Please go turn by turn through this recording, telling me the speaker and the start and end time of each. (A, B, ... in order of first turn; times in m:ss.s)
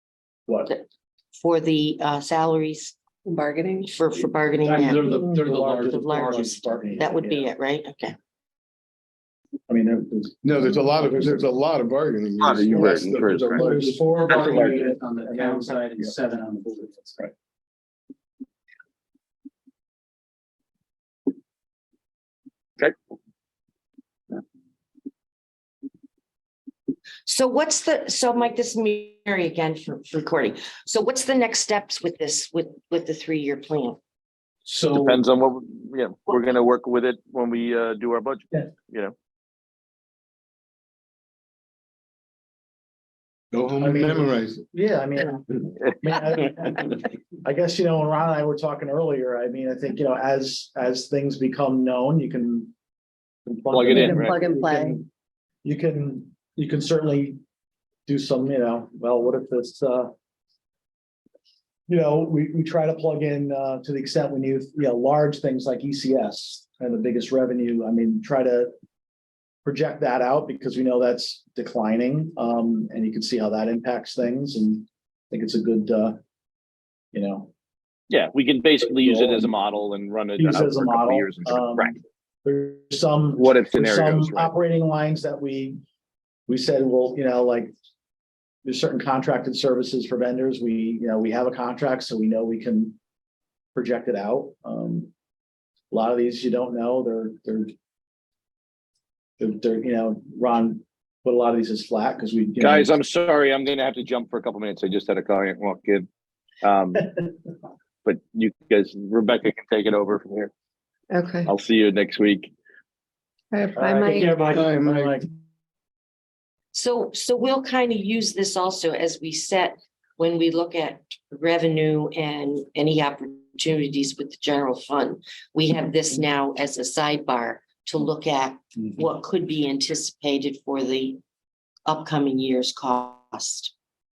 0:00.6-0:03.0 A
0:03.2-0:03.9 B
0:03.9-0:05.2 A
0:04.7-0:06.8 C
0:04.7-0:07.5 D
0:05.9-0:08.2 A
0:09.7-0:11.5 D
0:10.4-0:14.0 E
0:12.4-0:13.7 F
0:13.5-0:17.3 C
0:14.3-0:14.8 F
0:15.0-0:16.1 D
0:27.2-0:34.0 A
0:34.6-0:35.2 C
0:34.9-0:39.1 F
0:43.5-0:44.6 E
0:43.8-0:52.7 D
0:53.4-0:55.0 D
0:53.7-0:54.3 F
0:53.9-0:55.0 B
0:55.6-0:57.4 D
0:58.0-1:00.1 D
1:01.9-1:08.7 D
1:09.6-1:16.2 D
1:17.1-1:17.5 D
1:18.1-1:22.0 F
1:18.8-1:19.5 D
1:20.4-1:25.8 D
1:23.4-1:24.6 F
1:26.5-1:27.7 D
1:28.6-1:33.0 D
1:33.7-1:35.1 D
1:35.9-1:37.7 D
1:39.4-1:43.0 D
1:42.6-1:46.1 F
1:46.6-1:47.1 F
1:48.0-1:50.5 F
1:51.1-1:51.5 B
1:51.4-1:52.5 F
1:53.5-1:54.5 B
1:53.8-1:55.3 D
1:54.4-1:55.2 E
1:56.7-2:11.2 A
2:11.8-2:13.7 A